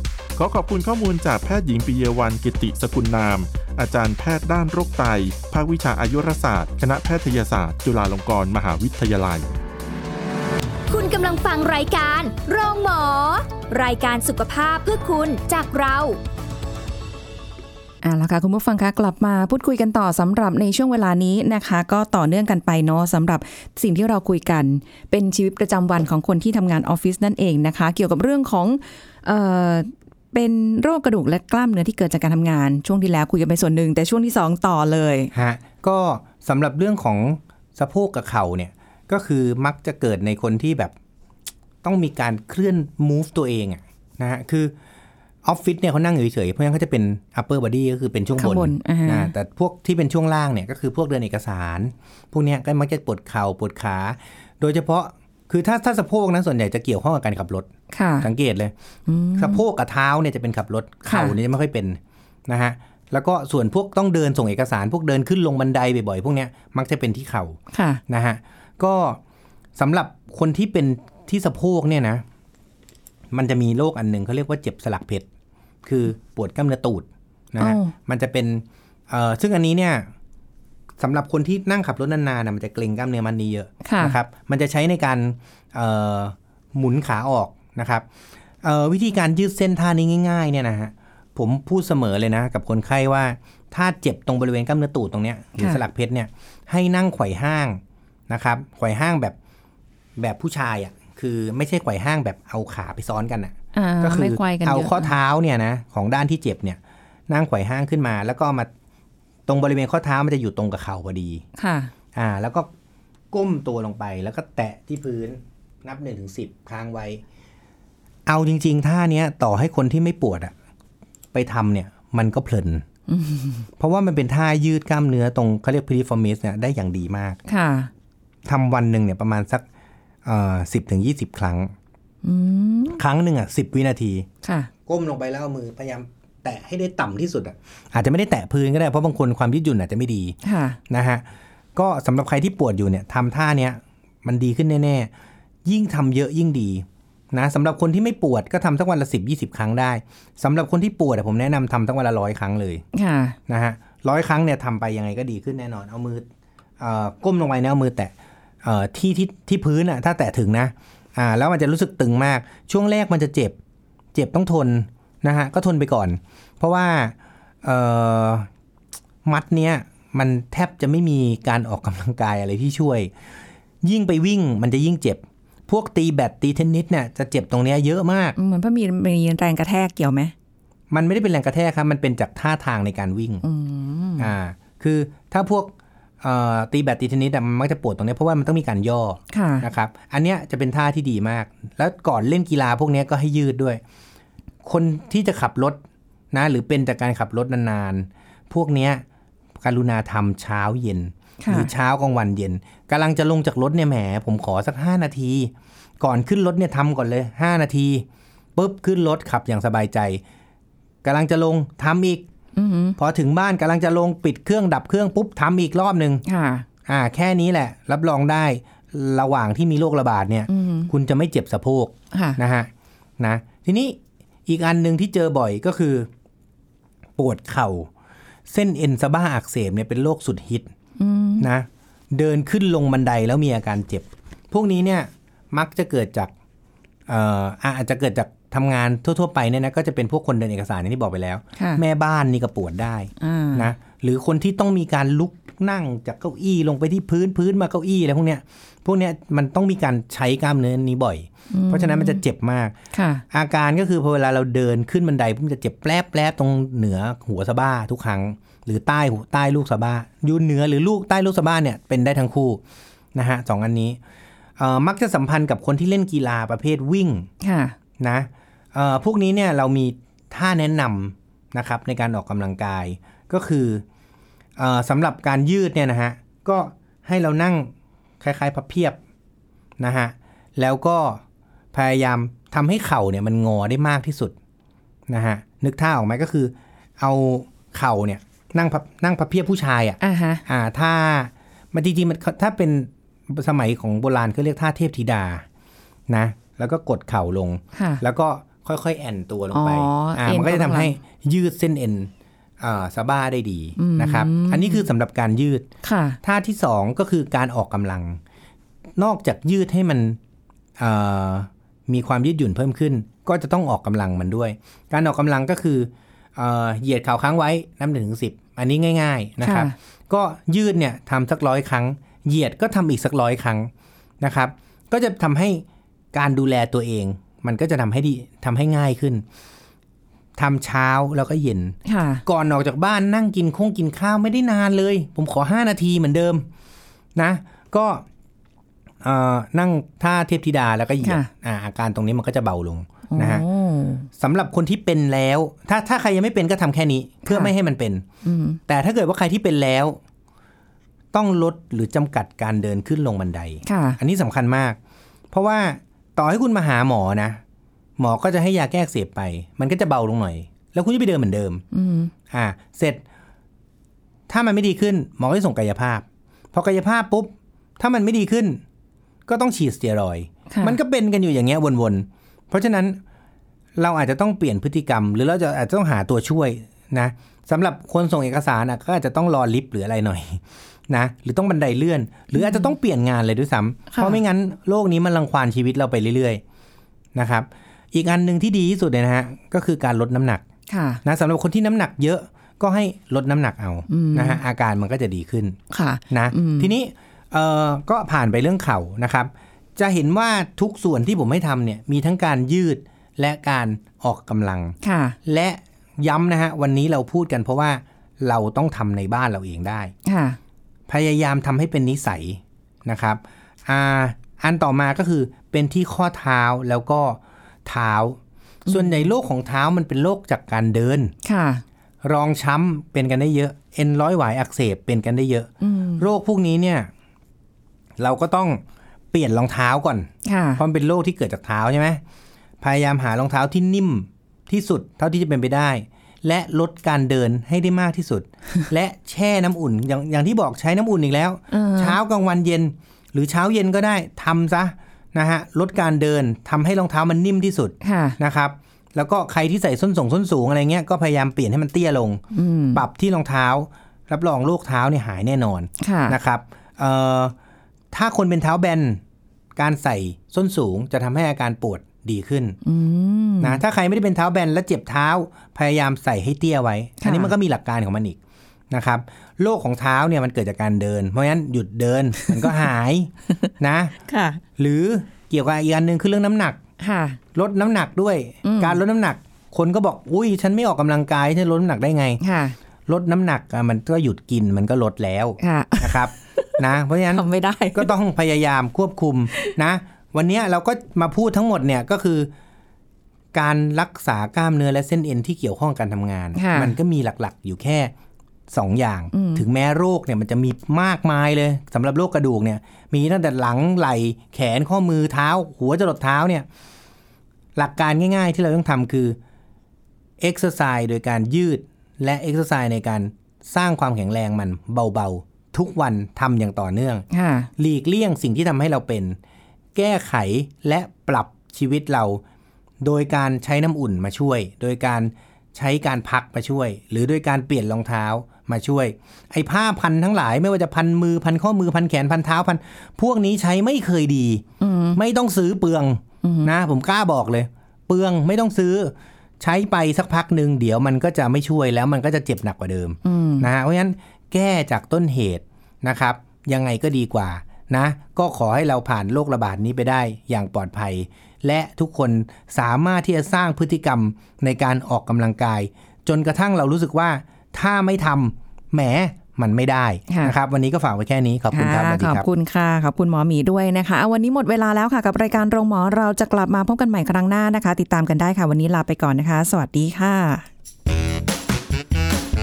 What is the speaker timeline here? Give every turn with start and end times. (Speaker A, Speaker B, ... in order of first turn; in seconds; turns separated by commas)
Speaker A: 0.3-9.5, Speaker B: 10.9-16.2, Speaker C: 18.0-35.3, Speaker D: 35.3-40.9, Speaker D: 41.8-44.7, Speaker D: 45.4-57.7, Speaker C: 48.4-49.3, Speaker C: 57.9-58.3, Speaker D: 58.2-58.7, Speaker C: 59.1-59.6, Speaker D: 59.4-69.2, Speaker C: 61.1-61.4, Speaker C: 67.7-68.0, Speaker D: 69.8-72.2, Speaker D: 73.3-75.3, Speaker D: 75.8-80.1, Speaker C: 77.6-77.9, Speaker D: 81.0-88.0, Speaker C: 83.8-84.2, Speaker D: 88.6-99.4, Speaker D: 100.2-108.7, Speaker C: 103.7-105.1, Speaker D: 109.5-111.4, Speaker C: 111.6-111.9, Speaker D: 112.1-112.7, Speaker D: 113.3-117.2, Speaker D: 118.3-120.5, Speaker D: 121.3-122.8, Speaker C: 123.1-123.7, Speaker D: 123.8-127.4, Speaker C: 127.5-127.9, Speaker D: 128.4-129.6, Speaker D: 130.2-131.7, Speaker C: 132.2-133.0, Speaker D: 132.9-134.3, Speaker C: 134.4-134.7, Speaker D: 134.9-140.4, Speaker C: 140.4-140.8, Speaker D: 140.9-141.2, Speaker D: 141.8-145.1, Speaker D: 145.6-152.8, Speaker C: 152.9-153.4, Speaker D: 153.5-156.3, Speaker D: 156.8-158.1, Speaker D: 158.6-163.6, Speaker D: 164.1-168.5, Speaker D: 169.2-173.1, Speaker D: 173.8-178.3, Speaker C: 178.4-180.3, Speaker D: 180.9-183.4, Speaker C: 183.4-184.3, Speaker D: 184.2-193.8, Speaker C: 189.3-189.7, Speaker D: 194.6-195.8, Speaker D: 196.3-199.0, Speaker D: 199.6-210.2, Speaker C: 201.4-201.7, Speaker D: 211.0-212.2, Speaker C: 212.6-213.0, Speaker D: 213.0-216.2, Speaker C: 216.3-216.7, Speaker D: 216.9-226.1, Speaker C: 220.5-220.9, Speaker C: 222.1-222.4, Speaker D: 227.2-227.9, Speaker D: 228.5-230.7, Speaker C: 231.0-231.4, Speaker D: 231.4-236.3, Speaker D: 237.1-252.8, Speaker C: 241.6-241.8, Speaker C: 243.2-243.7, Speaker C: 251.5-252.2, Speaker C: 252.9-253.2, Speaker D: 253.3-262.6, Speaker D: 263.1-264.0, Speaker D: 264.6-267.3, Speaker C: 267.4-267.8, Speaker D: 268.0-273.8, Speaker D: 274.6-279.0, Speaker D: 279.8-281.2, Speaker D: 281.7-284.3, Speaker D: 285.1-295.4, Speaker C: 290.0-290.4, Speaker D: 296.1-305.7, Speaker C: 297.8-298.0, Speaker C: 299.5-300.9, Speaker C: 303.8-304.9, Speaker C: 305.8-306.2, Speaker D: 306.2-308.2, Speaker D: 309.0-310.2, Speaker D: 310.8-323.7, Speaker C: 319.4-319.7, Speaker D: 324.2-329.2, Speaker D: 330.4-336.4, Speaker C: 331.9-332.2, Speaker D: 337.1-338.1, Speaker D: 339.0-343.4, Speaker C: 341.0-341.3, Speaker C: 343.1-344.1, Speaker D: 344.2-348.1, Speaker C: 347.2-347.5, Speaker C: 348.2-348.6, Speaker D: 348.7-350.0, Speaker D: 351.1-354.8, Speaker C: 353.6-354.0, Speaker D: 355.3-357.4, Speaker D: 358.0-361.6, Speaker C: 361.7-362.1, Speaker D: 362.3-363.0, Speaker D: 364.3-368.6, Speaker D: 369.3-373.0, Speaker C: 370.5-370.8, Speaker D: 373.8-386.4, Speaker C: 382.4-382.7, Speaker C: 383.9-384.2, Speaker D: 387.1-390.4, Speaker C: 390.7-391.0, Speaker D: 391.1-395.6, Speaker C: 393.9-394.4, Speaker C: 395.7-396.7, Speaker D: 396.1-409.9, Speaker C: 404.8-405.1, Speaker C: 410.1-410.4, Speaker D: 410.9-421.1, Speaker C: 418.7-419.0, Speaker C: 421.2-421.6, Speaker D: 422.0-426.9, Speaker C: 425.6-426.1, Speaker D: 428.0-432.0, Speaker C: 430.2-430.6, Speaker D: 432.6-457.4, Speaker C: 441.5-442.0, Speaker C: 447.8-448.2, Speaker C: 452.3-452.8, Speaker C: 455.8-456.2, Speaker D: 457.9-459.0, Speaker D: 459.6-462.6, Speaker C: 462.6-463.6, Speaker D: 463.4-468.2, Speaker C: 467.0-467.3, Speaker D: 468.7-473.9, Speaker C: 474.1-474.4, Speaker D: 474.6-476.6, Speaker C: 476.8-477.2, Speaker D: 477.4-482.2, Speaker C: 478.4-478.8, Speaker C: 482.2-482.6, Speaker D: 482.9-492.3, Speaker C: 485.4-486.6, Speaker C: 487.1-487.9, Speaker D: 493.3-497.9, Speaker C: 496.4-496.8, Speaker D: 498.5-506.4, Speaker C: 499.1-499.4, Speaker D: 507.6-509.2, Speaker D: 510.2-517.1, Speaker C: 517.1-517.5, Speaker D: 517.6-519.2, Speaker D: 519.8-522.2, Speaker D: 522.8-562.3, Speaker C: 534.6-535.0, Speaker C: 536.2-536.5, Speaker C: 543.0-543.5, Speaker C: 560.1-560.4, Speaker C: 561.5-570.5